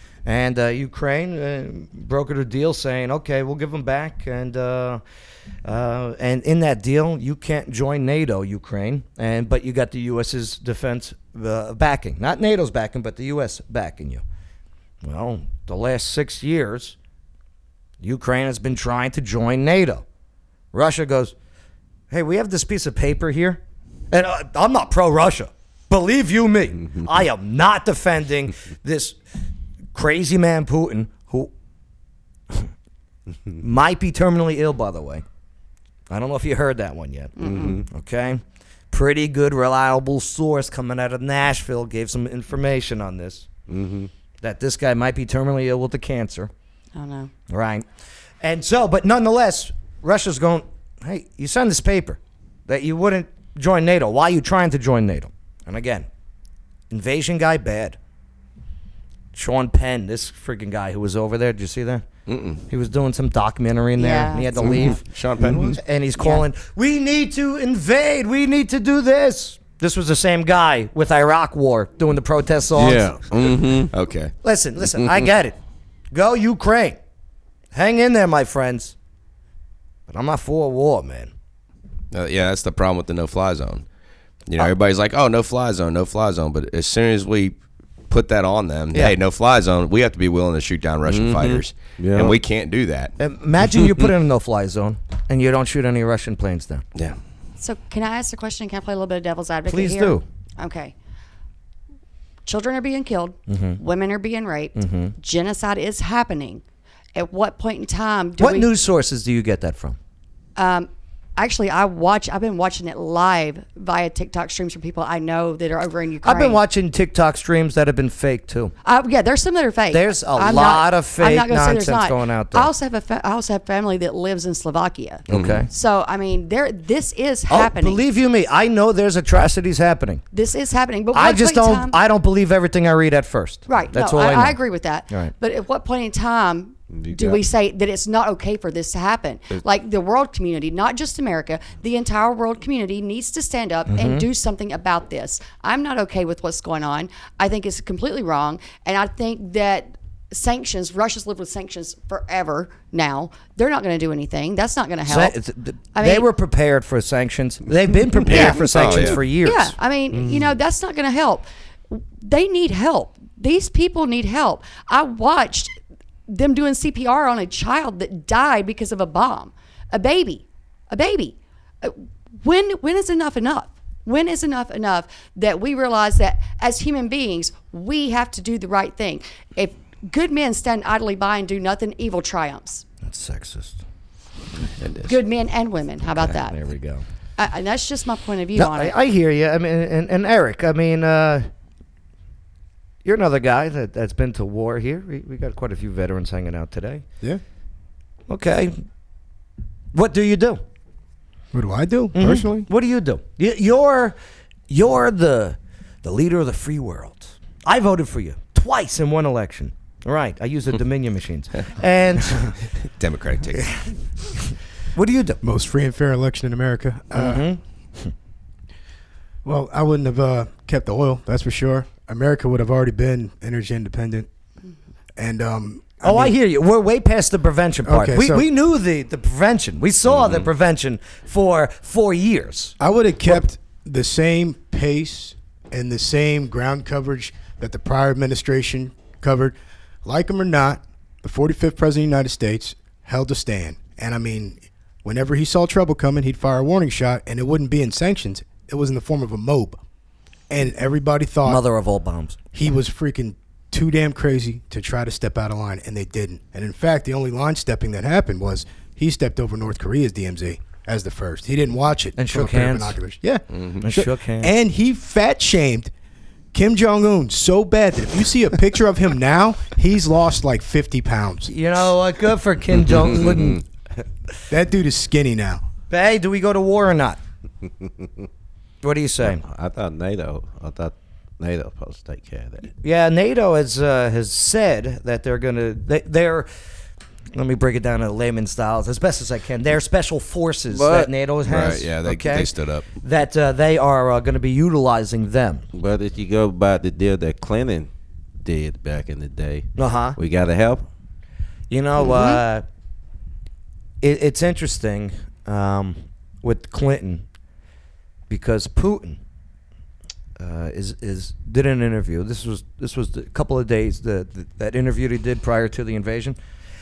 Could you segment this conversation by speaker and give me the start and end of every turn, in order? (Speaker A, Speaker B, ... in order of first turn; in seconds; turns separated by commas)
Speaker A: 0.2-5.0, Speaker A: 5.6-14.2, Speaker A: 15.0-17.0, Speaker A: 18.0-20.0, Speaker A: 20.7-21.3, Speaker A: 22.1-29.2, Speaker A: 29.9-31.5, Speaker A: 33.6-35.2, Speaker A: 36.1-43.5, Speaker B: 37.4-37.8, Speaker C: 37.4-37.8, Speaker C: 43.7-44.1, Speaker A: 44.4-46.5, Speaker B: 46.9-47.3, Speaker A: 47.5-47.9, Speaker A: 48.4-56.1, Speaker A: 56.9-58.0, Speaker A: 59.3-62.1, Speaker D: 62.3-62.6, Speaker A: 62.7-73.2, Speaker B: 64.0-64.9, Speaker D: 64.6-65.8, Speaker C: 65.4-65.8, Speaker B: 66.2-66.4, Speaker C: 72.7-73.9, Speaker D: 73.9-74.3, Speaker A: 74.4-75.6, Speaker A: 76.1-77.0, Speaker A: 77.7-79.0, Speaker A: 80.1-81.3, Speaker D: 82.1-83.8, Speaker D: 84.5-87.5, Speaker D: 88.1-93.1, Speaker C: 91.0-92.3, Speaker A: 93.2-96.8, Speaker B: 97.6-100.9, Speaker A: 99.7-100.2, Speaker B: 102.5-106.6, Speaker A: 103.5-103.8, Speaker A: 104.8-105.1, Speaker B: 107.1-108.7, Speaker A: 108.4-110.0, Speaker B: 110.6-116.6, Speaker A: 116.2-118.7, Speaker B: 118.8-128.0, Speaker A: 119.9-122.7, Speaker A: 125.3-125.7, Speaker D: 125.3-125.6, Speaker A: 127.5-130.2, Speaker B: 130.3-132.0, Speaker A: 131.1-134.6, Speaker B: 133.7-155.3, Speaker C: 136.9-137.4, Speaker A: 143.9-144.3, Speaker A: 155.0-159.8, Speaker B: 155.9-156.3, Speaker D: 158.2-159.2, Speaker B: 158.3-158.6, Speaker B: 159.4-165.7, Speaker C: 160.1-160.5, Speaker B: 166.3-182.8, Speaker A: 183.0-183.8, Speaker D: 184.8-185.2, Speaker B: 185.0-186.6, Speaker A: 186.3-187.0, Speaker B: 187.4-188.9, Speaker A: 188.6-191.5, Speaker A: 193.0-197.0, Speaker A: 198.3-198.8, Speaker A: 199.9-200.6, Speaker E: 201.5-202.6, Speaker A: 202.1-204.2, Speaker A: 204.7-212.5, Speaker D: 213.0-213.7, Speaker A: 213.5-215.4, Speaker E: 215.4-217.4, Speaker A: 217.1-218.1, Speaker E: 219.4-224.3, Speaker E: 225.2-226.3, Speaker A: 226.0-233.4, Speaker E: 227.8-228.4, Speaker E: 232.8-249.8, Speaker E: 250.5-251.6, Speaker A: 251.4-252.4, Speaker E: 252.5-265.9, Speaker A: 262.1-263.0, Speaker D: 263.5-263.8, Speaker A: 263.8-264.5, Speaker E: 266.5-271.5, Speaker A: 271.5-273.6, Speaker E: 274.5-275.6, Speaker A: 275.9-277.2, Speaker A: 278.8-279.4, Speaker C: 279.2-282.7, Speaker A: 282.8-286.5, Speaker A: 287.3-292.5, Speaker C: 290.7-291.1, Speaker D: 291.5-292.9, Speaker A: 293.0-295.6, Speaker C: 295.7-297.9, Speaker C: 298.4-300.8, Speaker A: 299.8-300.2, Speaker A: 301.7-302.6, Speaker B: 302.0-302.4, Speaker A: 304.0-307.2, Speaker A: 308.3-309.2, Speaker A: 310.4-316.4